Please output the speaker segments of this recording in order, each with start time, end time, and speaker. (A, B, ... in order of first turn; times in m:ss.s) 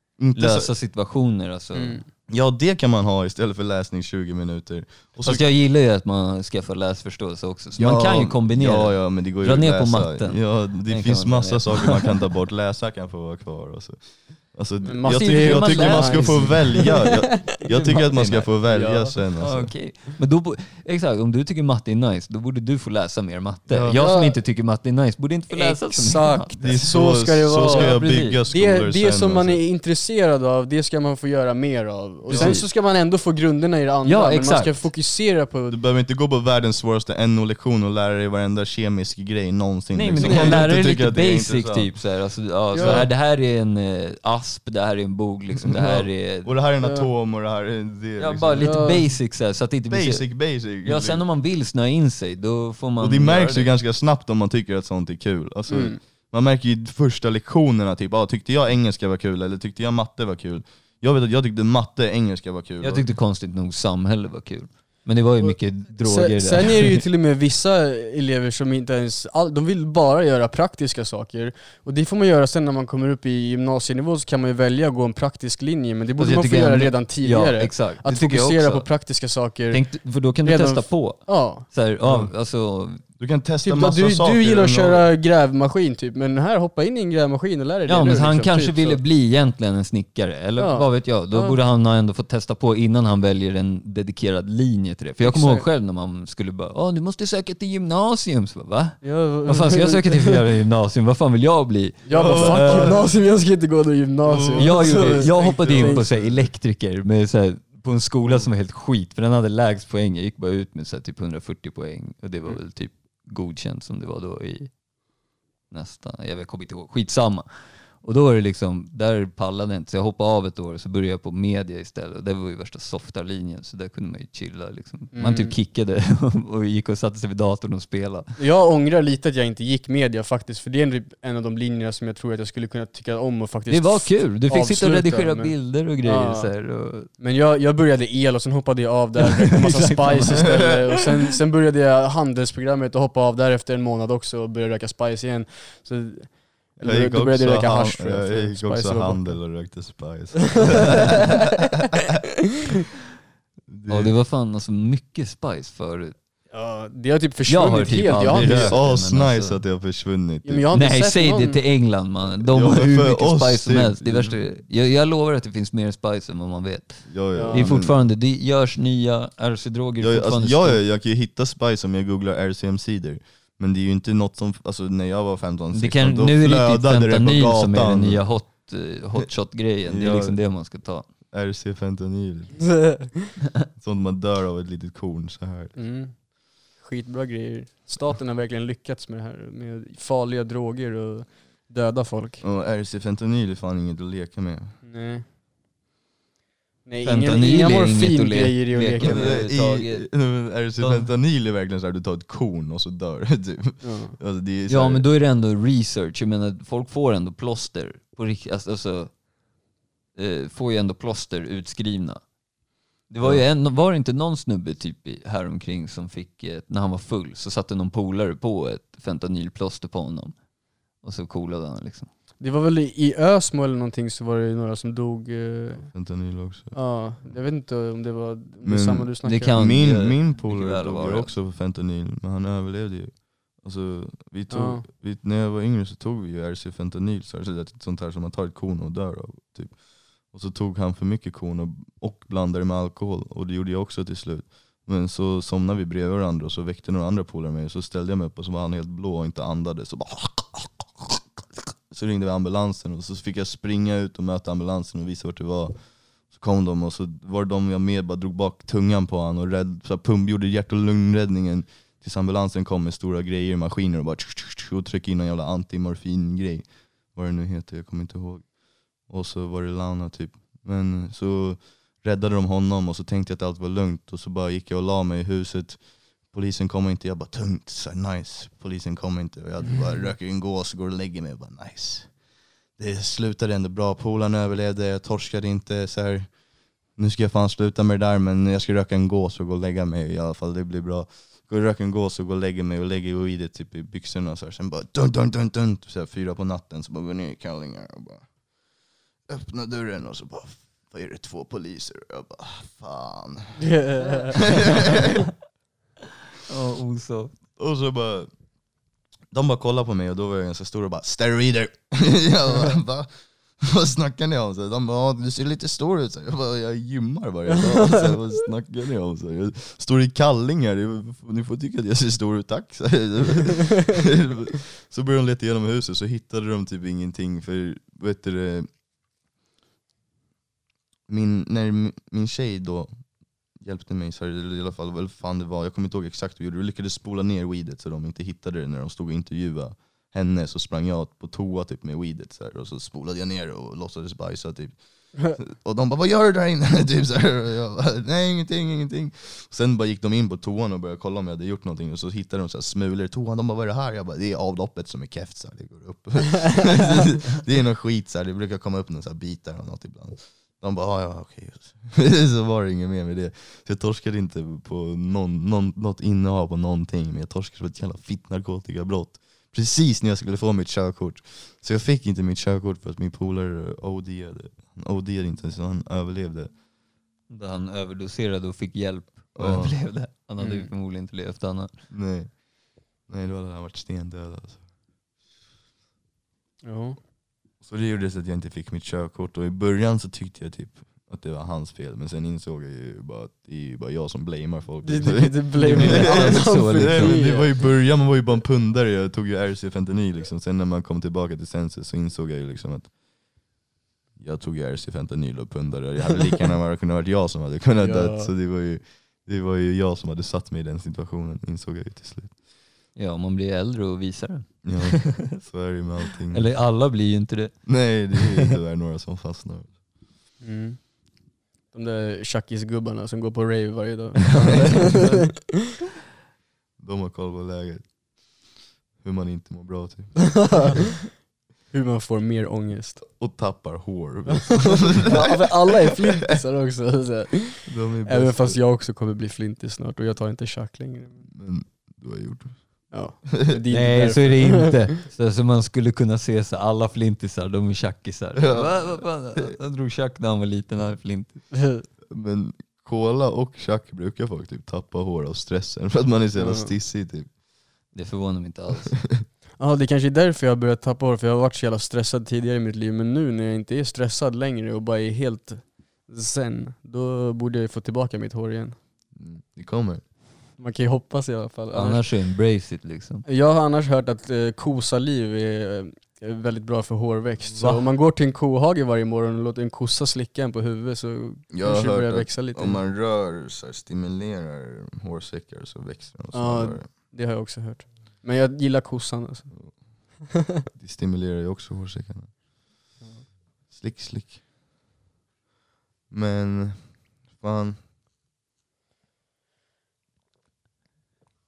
0:00.2-0:00.7 A
0:00.3-0:02.0 B
0:01.7-0:02.0 C
0:02.3-0:05.4 A
0:05.2-0:12.2 B
0:07.7-0:19.7 A
0:14.8-0:17.1 C
0:15.0-0:17.0 B
0:17.6-0:18.5 B
0:18.7-0:19.2 C
0:19.4-0:26.9 B
0:23.7-0:24.0 A
0:23.9-0:24.4 C
0:25.5-0:35.8 C
0:26.6-0:29.6 A
0:27.5-0:28.4 B
0:32.3-0:32.6 A
0:32.3-0:32.7 B
0:34.0-0:34.9 B
0:35.7-0:42.0 A
0:39.9-0:46.5 B
0:40.2-0:40.6 C
0:42.7-0:43.0 C
0:42.8-0:43.1 A
0:45.7-0:49.3 A
0:48.2-0:53.7 B
0:48.6-0:49.0 C
0:49.9-0:51.2 A
0:53.0-1:03.1 A
0:55.7-0:56.0 C
1:02.8-1:07.0 B
1:05.4-1:21.7 C
1:16.2-1:18.8 B
1:19.7-1:23.0 B
1:22.0-1:22.3 A
1:23.2-1:25.1 A
1:23.6-1:29.0 C
1:27.8-1:43.0 B
1:30.6-1:31.6 C
1:35.2-1:35.6 C
1:39.0-1:40.4 C
1:42.0-1:46.1 C
1:42.1-1:43.1 A
1:44.2-1:46.5 A
1:44.6-1:54.8 B
1:55.7-2:08.4 B
2:05.1-2:05.5 C
2:08.4-2:29.5 C
2:13.7-2:17.1 B
2:19.2-2:20.7 B
2:26.8-2:31.4 A
2:30.7-2:31.2 C
2:33.7-2:34.1 A
2:33.9-2:36.2 B
2:36.5-2:38.8 C
2:37.5-2:39.6 B
2:38.4-2:40.6 A
2:40.4-2:41.6 C
2:40.7-2:50.8 B
2:42.4-2:44.4 A
2:47.1-2:48.0 A
2:47.3-2:47.6 C
2:50.0-2:58.5 A
2:55.7-3:01.1 B
2:59.8-3:00.5 A
3:01.2-3:02.7 A
3:02.6-3:03.3 C
3:03.7-3:05.8 A
3:05.7-3:12.4 C
3:12.4-3:14.8 A
3:14.8-3:15.2 C
3:16.8-3:19.8 C
3:17.0-3:21.1 B
3:19.0-3:25.1 A
3:23.8-3:24.2 C
3:24.7-3:29.2 B
3:30.1-3:32.3 B
3:33.0-3:40.4 B
3:33.2-3:33.4 A
3:41.0-3:42.1 B
3:42.4-3:45.9 C
3:45.9-3:46.7 A
3:46.7-3:49.7 C
3:48.6-4:11.2 A
3:49.2-3:51.3 B
3:54.5-3:54.9 C
4:11.9-4:42.2 A
4:42.7-4:58.3 A
4:59.2-5:03.7 A
5:03.6-5:04.5 C
5:04.4-5:05.2 A
5:06.5-5:07.3 B
5:07.6-5:08.3 A
5:09.3-5:28.7 A
5:31.1-6:16.5 A
6:17.3-6:21.8 B
6:19.3-6:19.8 A
6:20.4-6:20.7 C
6:21.9-6:24.6 A
6:26.6-6:27.0 C
6:27.6-6:43.0 A
6:34.8-6:37.6 C
6:35.5-6:37.5 B
6:44.2-6:52.3 A
6:47.8-6:48.3 C
6:52.9-6:55.2 B
6:54.6-6:56.5 A
6:56.3-6:58.3 B
6:57.6-6:59.8 A
7:00.4-7:05.5 C
7:04.4-7:04.9 B
7:04.4-7:05.3 A
7:06.8-7:10.8 A
7:10.4-7:11.1 C
7:11.7-7:13.2 C
7:13.1-7:15.4 A
7:14.8-7:21.3 C
7:17.6-7:18.6 A
7:21.3-7:23.5 A
7:22.9-7:24.9 C
7:23.7-7:31.5 B
7:28.4-7:29.5 A
7:31.5-7:31.8 C
7:32.1-7:37.3 A
7:36.4-7:36.7 C
7:37.9-7:39.0 B
7:39.6-7:48.8 C
7:49.1-7:50.0 A
7:50.6-7:52.1 C
7:51.7-7:53.2 B
7:53.3-8:02.8 C
7:57.5-7:57.8 A
8:01.5-8:06.9 A
8:06.3-8:10.4 C
8:09.5-8:09.9 A
8:10.7-8:12.3 A
8:13.0-8:13.2 C
8:13.7-8:14.4 A
8:16.1-8:17.8 A